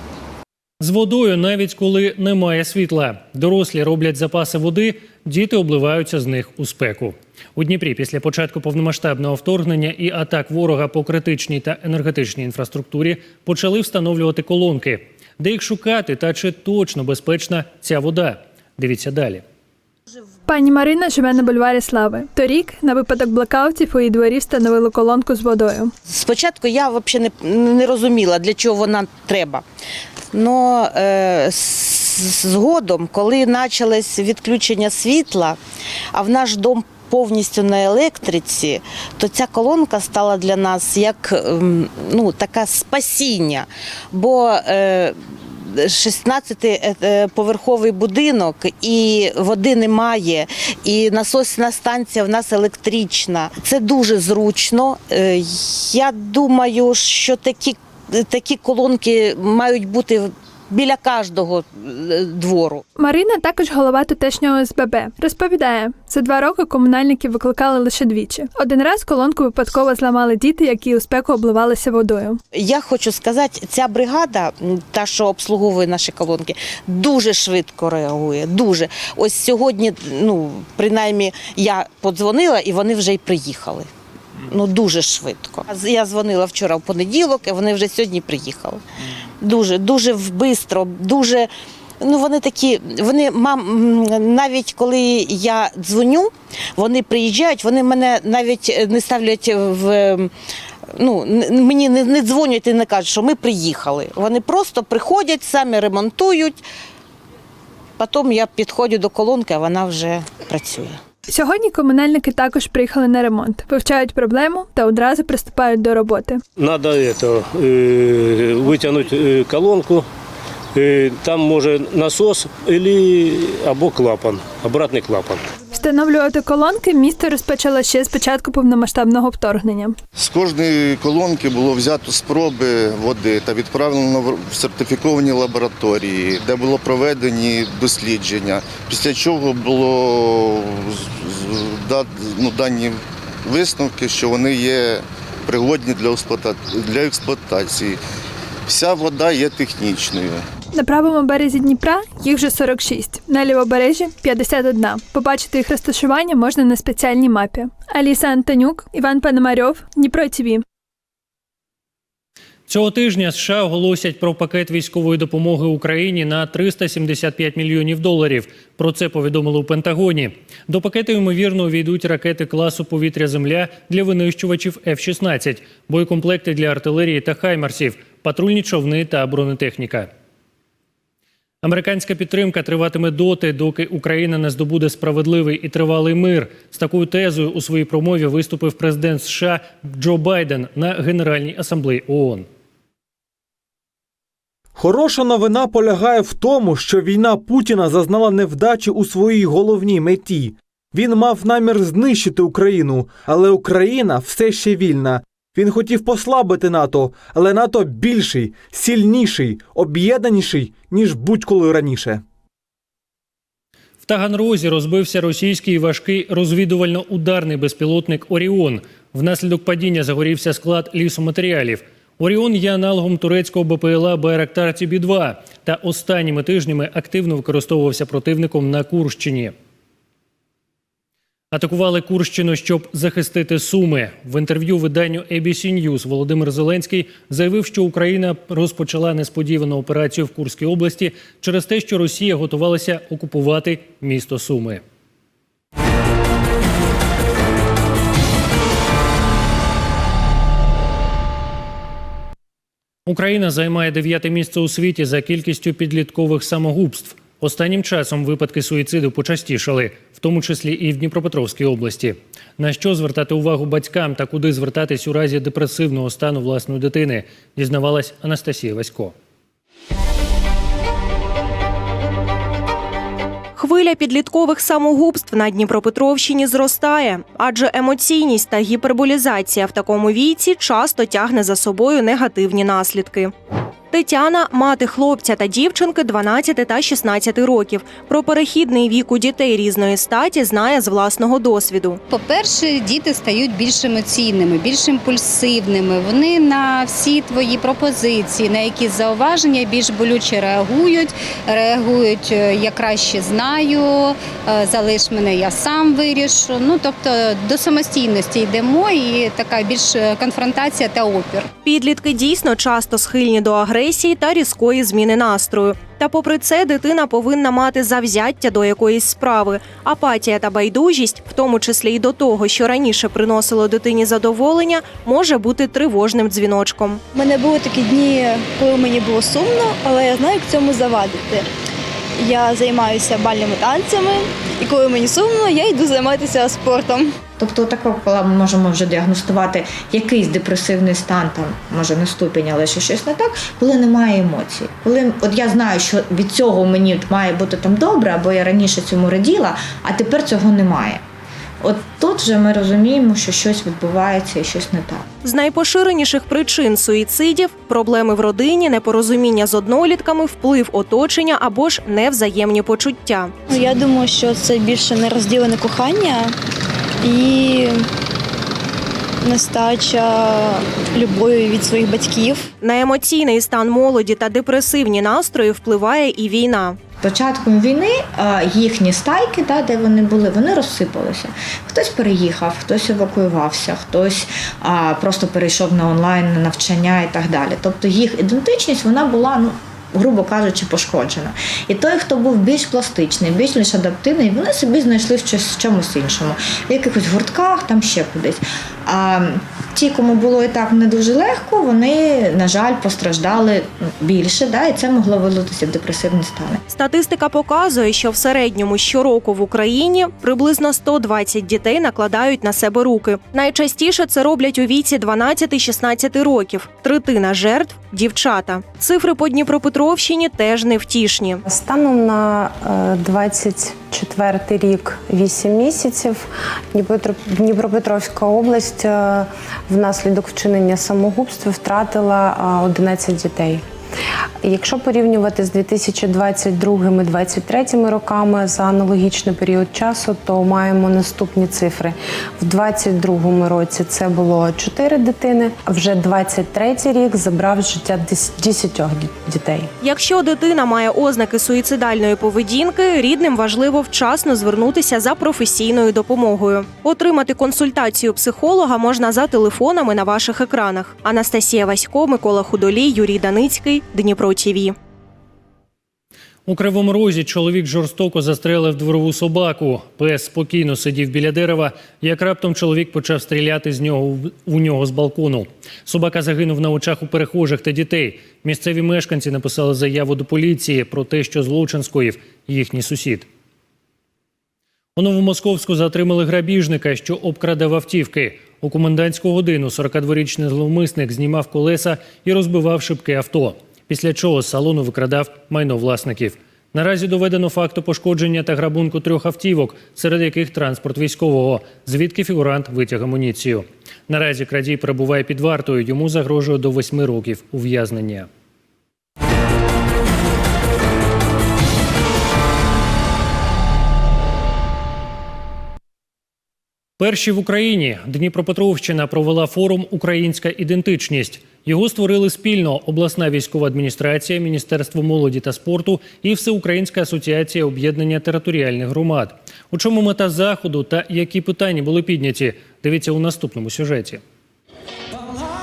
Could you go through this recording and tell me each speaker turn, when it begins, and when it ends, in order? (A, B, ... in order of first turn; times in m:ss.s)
0:00.8-0:19.4 A
0:20.5-0:25.9 B
0:26.1-0:29.6 C
0:30.3-0:35.6 C
0:36.1-1:02.8 C
1:03.0-1:12.4 B
1:12.5-1:23.9 C
1:24.4-1:28.8 C
1:29.4-1:31.5 C
1:32.0-1:40.3 C
1:40.9-1:46.6 C
1:48.0-1:51.0 C
1:51.3-1:56.4 B
1:56.6-2:00.1 D
2:00.8-2:05.4 D
2:05.8-2:10.0 B
2:10.2-2:28.0 E
2:28.7-2:30.4 E
2:30.7-2:40.6 B
2:42.7-3:00.1 A
3:01.6-3:12.5 A
3:14.8-3:32.2 F
3:34.0-3:49.5 A
3:51.5-4:04.8 A
4:13.1-4:29.1 A
4:33.6-4:43.3 G
4:43.9-4:52.0 G
4:52.1-5:11.5 H
5:11.6-5:27.0 G
5:27.1-5:31.5 I
5:32.2-5:37.1 I
5:37.4-5:51.0 J
5:51.6-5:55.1 J
5:55.2-6:03.3 G
6:03.5-6:06.4 I
6:07.0-6:07.9 I
6:09.2-6:12.5 I
6:12.6-6:16.8 G
6:17.0-6:46.6 J
6:46.7-7:01.4 G
7:01.5-7:13.6 K
7:14.4-7:29.7 K
7:29.8-7:44.7 G
7:46.5-8:03.3 A
8:05.0-8:28.3 A
8:37.0-8:54.2 A